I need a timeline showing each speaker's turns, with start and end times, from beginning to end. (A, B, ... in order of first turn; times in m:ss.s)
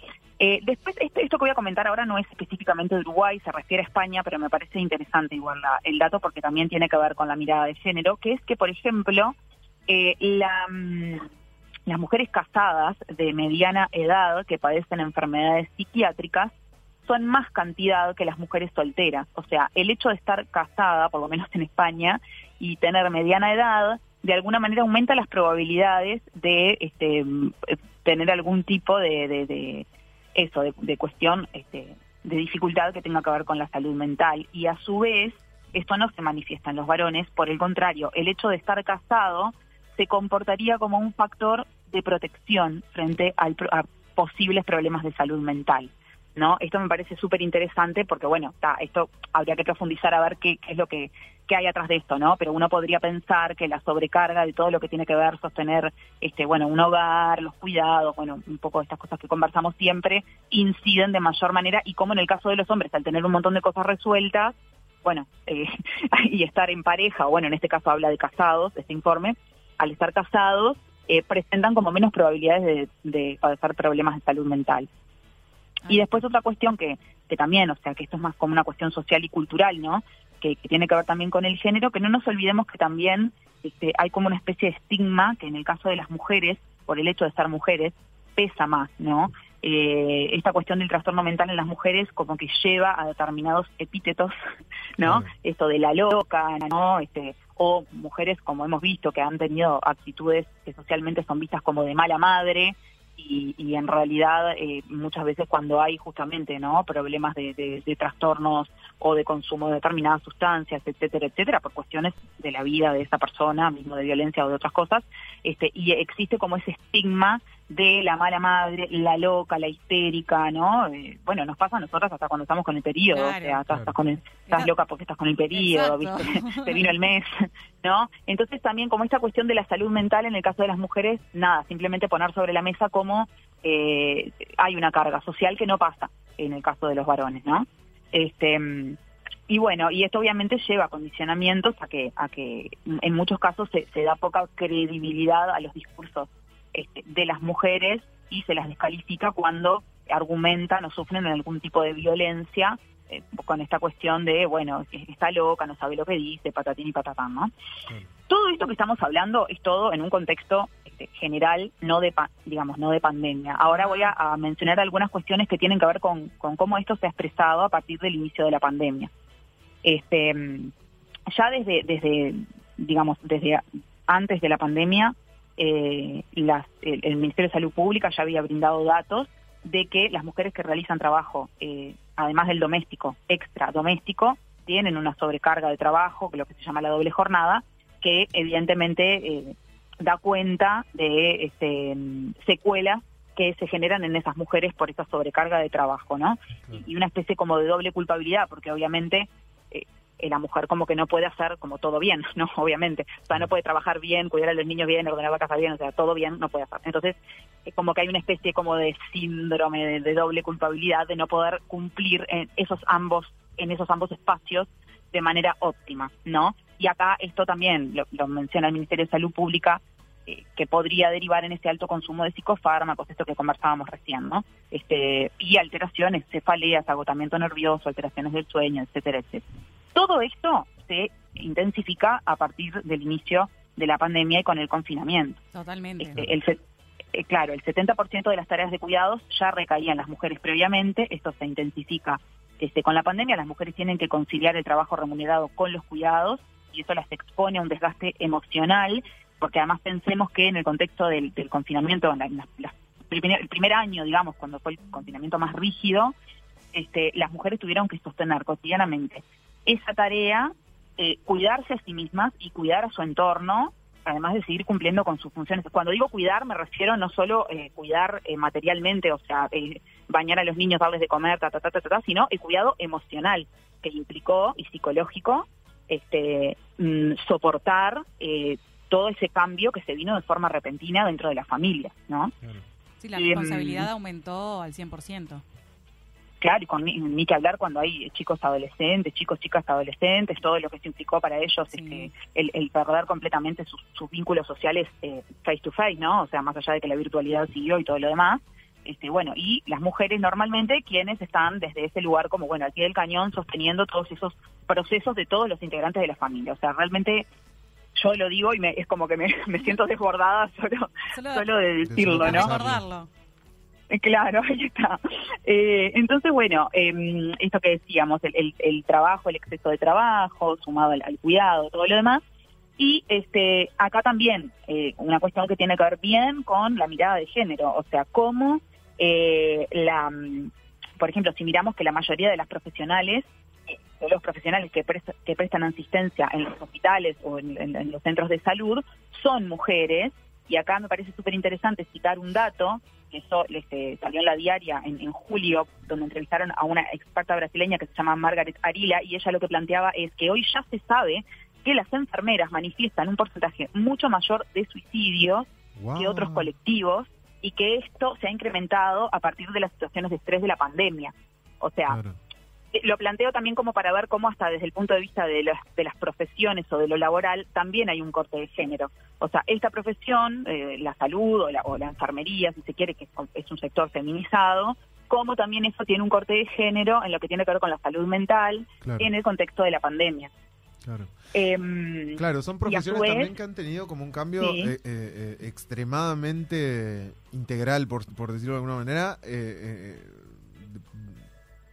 0:00.4-0:09.3 A
0:09.9-0:11.2 A
0:11.9-0:16.5 A
0:17.0-0:29.8 A
0:30.4-1:14.9 A
1:15.8-1:34.3 A
1:15.8-1:16.2 B
1:35.0-2:19.0 A
1:35.0-1:35.3 C
2:03.1-2:03.6 B
2:04.4-2:04.7 B
2:05.5-2:07.0 B
2:19.5-2:37.5 A
2:38.3-2:49.1 A
2:43.7-2:44.1 B
2:49.8-2:50.7 A
2:51.3-3:49.4 A
3:49.9-3:55.4 A
3:55.5-3:56.2 B
3:56.0-3:56.6 A
3:57.1-4:16.1 A
4:16.7-4:42.3 A
4:43.0-4:45.4 B
4:43.1-4:43.9 A
4:46.4-5:07.3 A
4:51.7-4:52.1 B
5:08.0-5:12.4 A
5:11.1-5:11.5 B
5:11.8-5:12.9 C
5:12.1-5:13.1 B
5:13.9-5:22.2 A
5:22.8-6:02.0 A
5:55.8-5:56.5 C
6:01.9-6:02.2 C
6:02.7-6:20.3 A
6:18.8-6:19.1 C
6:20.8-6:21.1 C
6:21.3-6:23.3 A
6:22.2-6:31.2 C
6:24.4-6:24.7 A